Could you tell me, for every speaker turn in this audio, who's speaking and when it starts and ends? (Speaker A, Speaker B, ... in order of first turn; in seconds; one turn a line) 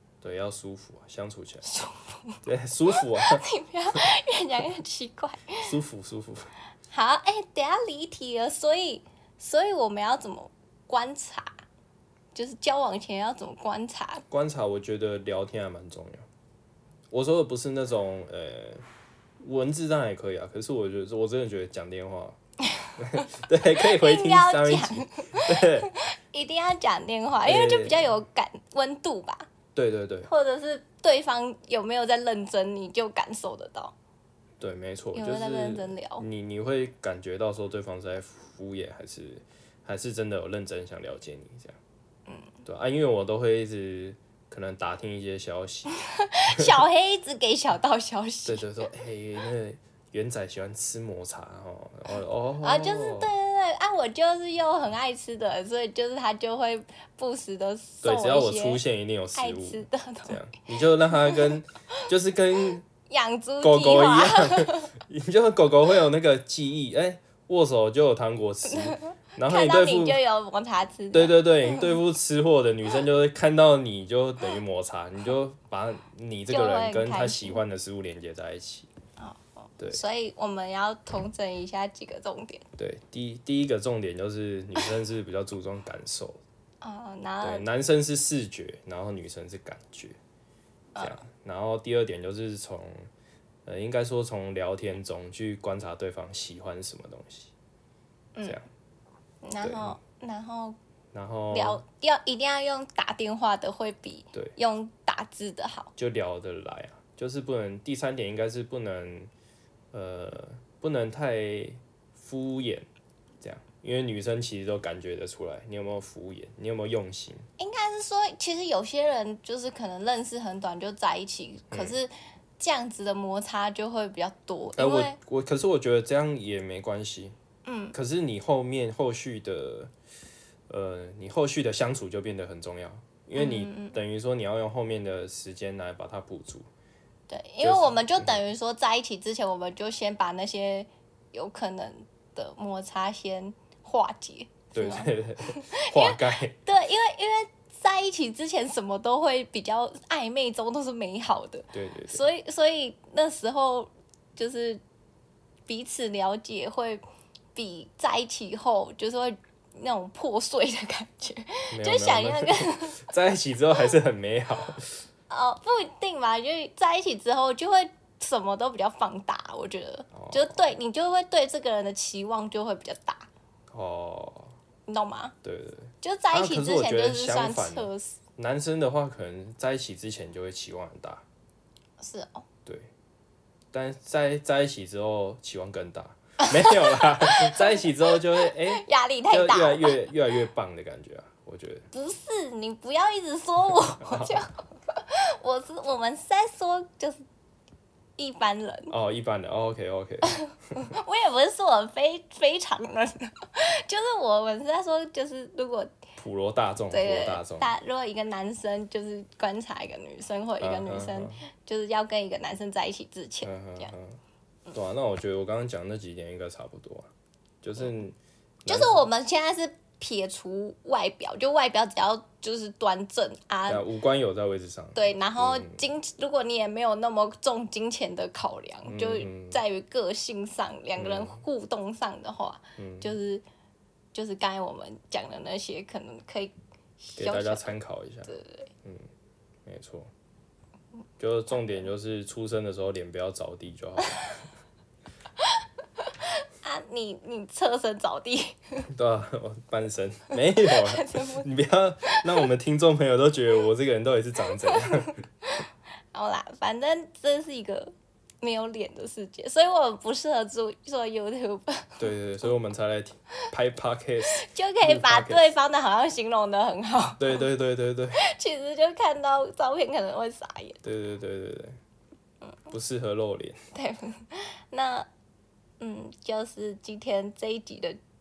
Speaker A: 0.2-1.6
Speaker B: 1.6-2.4
Speaker A: 2.4-3.4
Speaker B: 3.0-5.7
Speaker A: 5.6-6.5
Speaker B: 6.9-11.6
Speaker B: 12.3-14.2
Speaker A: 14.3-16.2
Speaker A: 17.1-18.8
Speaker A: 19.4-22.4
Speaker A: 23.0-25.9
Speaker B: 23.8-29.5
Speaker A: 27.4-28.1
Speaker A: 29.7-30.3
Speaker B: 30.3-33.9
Speaker A: 34.6-41.8
Speaker B: 35.1-36.2
Speaker A: 42.6-46.0
Speaker B: 46.3-48.9
Speaker A: 46.5-46.8
Speaker A: 48.5-53.3
Speaker B: 52.6-58.8
Speaker A: 58.0-62.8
Speaker B: 59.3-60.4
Speaker B: 61.1-61.5
Speaker B: 63.1-64.9
Speaker A: 63.6-70.2
Speaker B: 68.7-71.9
Speaker A: 71.1-78.9
Speaker B: 76.5-77.6
Speaker B: 79.2-82.6
Speaker A: 82.8-86.4
Speaker B: 86.8-87.6
Speaker A: 87.4-90.2
Speaker A: 91.0-93.1
Speaker A: 93.7-97.5
Speaker B: 98.3-98.6
Speaker B: 99.4-100.8
Speaker A: 99.6-100.0
Speaker A: 101.1-101.8
Speaker B: 101.5-105.9
Speaker A: 106.0-109.3
Speaker A: 109.9-112.8
Speaker A: 113.4-117.5
Speaker B: 117.6-125.2
Speaker A: 121.7-122.0
Speaker A: 124.8-127.3
Speaker B: 127.6-128.0
Speaker A: 127.9-129.9
Speaker A: 130.7-136.7
Speaker B: 133.3-134.0
Speaker B: 137.3-154.8
Speaker A: 137.6-138.4
Speaker A: 144.7-146.6
Speaker A: 151.7-152.3
Speaker B: 155.7-157.0
Speaker B: 157.5-163.0
Speaker A: 161.7-165.0
Speaker B: 165.3-173.3
Speaker A: 170.1-170.6
Speaker A: 173.7-174.6
Speaker B: 174.9-175.3
Speaker A: 175.4-181.2
Speaker B: 176.0-178.2
Speaker B: 182.0-182.4
Speaker A: 183.7-191.8
Speaker B: 186.4-190.0
Speaker B: 191.9-197.2
Speaker A: 194.0-194.4
Speaker B: 198.2-198.9
Speaker A: 198.9-200.9
Speaker B: 200.3-205.9
Speaker A: 206.2-207.7
Speaker B: 206.9-213.9
Speaker A: 210.6-211.4
Speaker A: 213.4-214.2
Speaker A: 214.7-217.1
Speaker A: 217.6-219.1
Speaker B: 218.7-223.8
Speaker A: 223.7-225.8
Speaker B: 224.9-233.4
Speaker A: 228.8-229.6
Speaker A: 231.0-231.4
Speaker A: 232.8-233.2
Speaker B: 234.1-238.7
Speaker A: 237.2-238.3
Speaker A: 239.7-240.1
Speaker A: 241.2-244.3
Speaker B: 246.4-248.9
Speaker A: 248.9-255.1
Speaker B: 250.6-251.5
Speaker B: 252.1-252.4
Speaker B: 254.7-262.1
Speaker A: 262.0-265.5
Speaker B: 264.4-267.4
Speaker A: 267.2-268.2
Speaker B: 268.1-270.8
Speaker A: 270.8-271.8
Speaker A: 272.7-273.6
Speaker B: 273.7-275.1
Speaker B: 275.8-278.0